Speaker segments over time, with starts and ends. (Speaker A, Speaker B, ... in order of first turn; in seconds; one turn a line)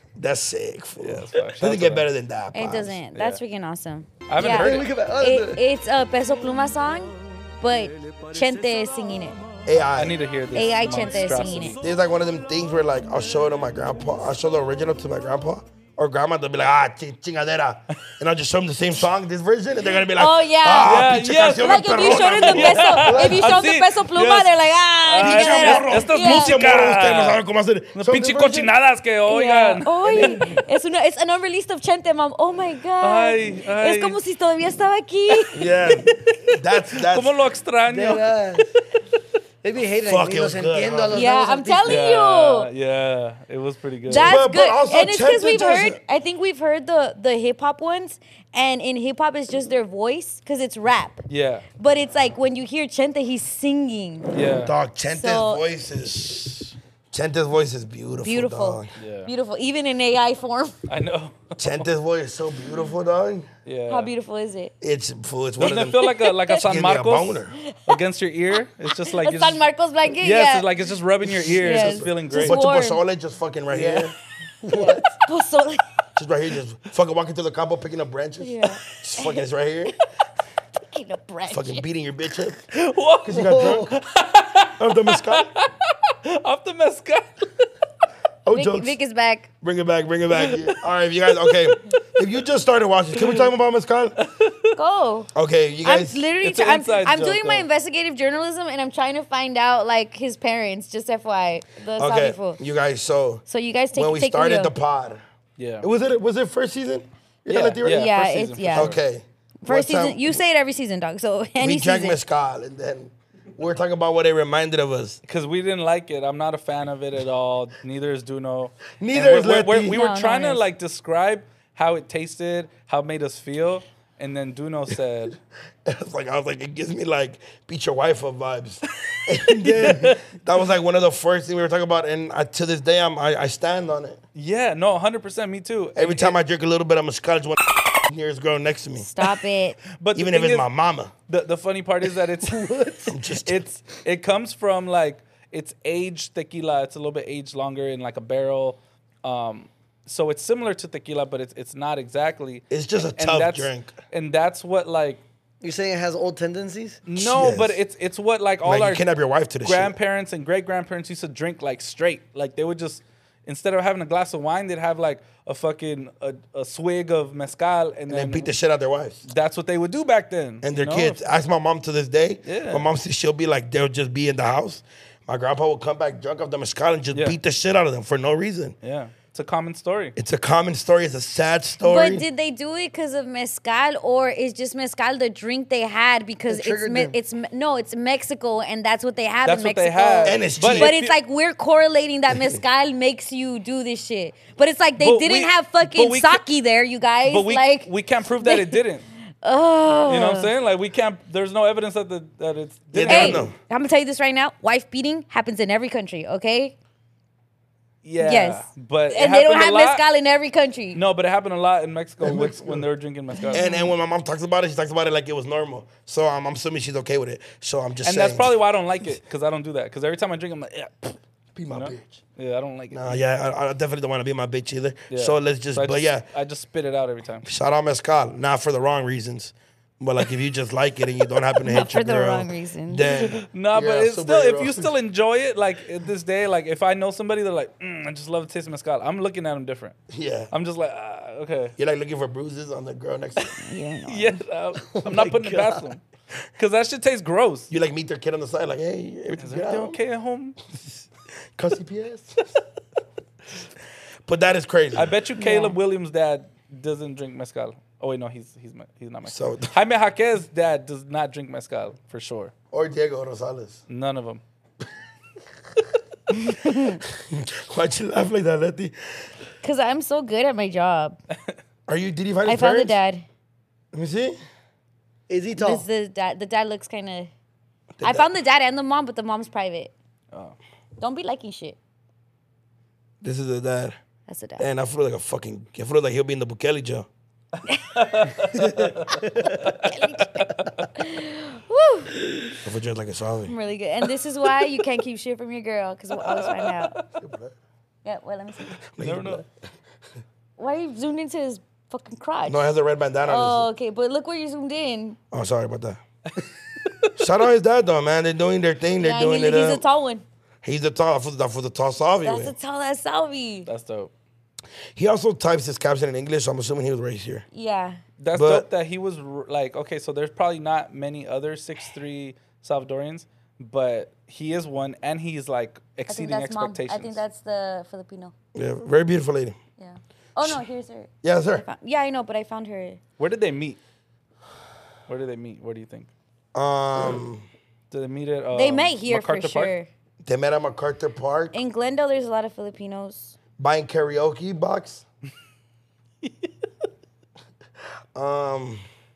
Speaker A: 0.2-3.0
Speaker B: 1.0-2.1
Speaker C: 2.5-9.4
Speaker B: 3.1-3.4
Speaker B: 4.3-4.9
Speaker D: 4.4-5.6
Speaker A: 9.7-10.2
Speaker B: 10.0-11.8
Speaker C: 10.5-11.8
Speaker A: 11.8-23.1
Speaker C: 20.2-26.6
Speaker B: 20.8-27.4
Speaker D: 23.1-23.6
Speaker A: 25.2-28.7
Speaker B: 27.9-30.6
Speaker C: 29.3-35.6
Speaker B: 33.0-34.2
Speaker B: 35.3-38.7
Speaker A: 35.5-37.4
Speaker D: 37.9-38.7
Speaker D: 39.6-42.0
Speaker A: 40.0-41.2
Speaker C: 41.1-42.7
Speaker B: 41.9-44.4
Speaker C: 44.1-51.2
Speaker A: 44.1-46.0
Speaker B: 51.3-51.7
Speaker C: 51.8-54.4
Speaker B: 54.3-54.8
Speaker A: 54.6-58.9
Speaker C: 55.1-55.6
Speaker C: 58.2-60.8
Speaker B: 59.0-59.3
Speaker B: 60.9-61.9
Speaker A: 61.6-63.5
Speaker B: 63.6-64.1
Speaker C: 63.9-64.7
Speaker A: 64.8-67.6
Speaker B: 65.6-69.6
Speaker C: 66.0-66.6
Speaker C: 67.6-68.0
Speaker C: 68.6-70.7
Speaker B: 70.2-72.6
Speaker A: 71.3-74.2
Speaker C: 71.5-73.0
Speaker D: 73.7-75.2
Speaker C: 74.7-75.9
Speaker A: 76.2-80.0
Speaker C: 78.4-79.4
Speaker C: 80.8-81.8
Speaker A: 81.5-82.7
Speaker B: 82.7-87.7
Speaker A: 83.2-84.0
Speaker D: 83.3-83.9
Speaker A: 84.8-85.5
Speaker A: 88.5-89.0
Speaker C: 88.5-89.5
Speaker A: 89.6-94.2
Speaker B: 90.3-90.8
Speaker B: 91.4-91.8
Speaker B: 93.2-93.5
Speaker B: 94.2-94.8
Speaker C: 94.8-95.3
Speaker A: 95.3-96.3
Speaker C: 95.8-102.6
Speaker B: 96.4-97.7
Speaker A: 102.0-105.2
Speaker C: 103.5-104.7
Speaker B: 105.6-105.9
Speaker A: 105.8-108.1
Speaker B: 107.5-109.0
Speaker C: 107.8-109.0
Speaker A: 108.7-110.3
Speaker C: 109.6-112.2
Speaker A: 111.6-115.2
Speaker B: 115.2-125.4
Speaker A: 119.0-120.0
Speaker C: 119.9-120.6
Speaker A: 125.8-134.2
Speaker B: 128.9-130.4
Speaker B: 134.3-136.4
Speaker A: 136.0-139.1
Speaker C: 139.0-139.8
Speaker B: 140.0-140.7
Speaker A: 140.2-141.1
Speaker B: 141.3-155.2
Speaker D: 142.4-143.1
Speaker A: 143.1-143.6
Speaker A: 152.7-153.9
Speaker D: 155.6-157.0
Speaker B: 157.1-159.1
Speaker A: 157.2-157.8
Speaker A: 158.6-159.9
Speaker B: 159.6-168.5
Speaker A: 168.1-169.3
Speaker B: 169.3-171.2
Speaker A: 170.6-178.8
Speaker B: 172.5-172.9
Speaker B: 178.8-180.2
Speaker A: 180.2-182.2
Speaker C: 181.8-197.9
Speaker D: 186.5-187.2
Speaker B: 189.4-191.2
Speaker A: 190.2-190.9
Speaker B: 195.0-196.4
Speaker B: 197.2-199.1
Speaker C: 198.4-198.8
Speaker C: 199.4-200.5
Speaker B: 200.1-203.5
Speaker A: 202.9-203.6
Speaker C: 203.1-206.8
Speaker B: 208.0-210.1
Speaker C: 208.2-211.0
Speaker B: 210.9-213.7
Speaker A: 212.2-212.9
Speaker C: 213.4-213.9
Speaker A: 213.5-218.6
Speaker B: 218.0-221.2
Speaker A: 221.6-222.2
Speaker B: 221.7-223.2
Speaker A: 222.9-226.3
Speaker B: 225.1-227.5
Speaker A: 227.4-234.9
Speaker C: 231.6-233.0
Speaker B: 233.0-240.0
Speaker A: 240.1-240.5
Speaker B: 240.5-241.8
Speaker A: 241.8-243.6
Speaker C: 243.6-244.4
Speaker B: 244.1-246.0
Speaker D: 244.8-245.9
Speaker B: 246.6-247.7
Speaker A: 247.7-250.0
Speaker B: 249.4-250.6
Speaker A: 251.6-252.6
Speaker A: 254.3-255.2
Speaker B: 254.9-262.5
Speaker C: 255.4-255.8
Speaker A: 259.3-259.8
Speaker A: 262.7-263.8
Speaker B: 263.9-264.4
Speaker C: 266.3-267.0
Speaker A: 266.7-268.9
Speaker C: 269.6-271.2
Speaker A: 271.9-273.0
Speaker C: 272.4-273.2
Speaker A: 273.9-274.4
Speaker D: 275.3-275.9
Speaker C: 275.6-277.3
Speaker A: 278.0-278.3
Speaker C: 278.0-279.9
Speaker C: 281.0-281.8
Speaker A: 283.2-284.0
Speaker C: 284.3-284.7
Speaker A: 284.6-287.1
Speaker B: 287.9-290.9
Speaker C: 289.9-292.1
Speaker A: 292.6-293.5
Speaker C: 293.5-297.0
Speaker B: 296.2-297.1
Speaker A: 297.2-297.6
Speaker C: 298.1-298.8
Speaker A: 299.0-299.5
Speaker B: 299.0-299.4
Speaker C: 300.6-302.7
Speaker A: 302.5-303.7
Speaker C: 303.2-305.2
Speaker A: 305.3-306.0
Speaker B: 306.8-307.2
Speaker A: 307.2-309.8
Speaker C: 309.0-310.2
Speaker A: 310.6-312.5
Speaker C: 312.2-313.7
Speaker B: 313.7-314.1
Speaker A: 315.0-317.4
Speaker C: 317.5-318.0
Speaker B: 318.2-327.2
Speaker A: 318.3-318.7
Speaker C: 326.1-328.3
Speaker A: 328.6-329.6
Speaker C: 329.8-331.1
Speaker A: 331.2-331.7
Speaker C: 331.6-333.0
Speaker B: 333.2-333.8
Speaker B: 335.1-336.1
Speaker A: 336.5-337.5
Speaker B: 337.9-339.7
Speaker C: 338.5-339.9
Speaker A: 340.2-341.6
Speaker C: 341.5-343.4
Speaker A: 343.6-345.0
Speaker B: 346.2-346.5
Speaker A: 348.1-348.8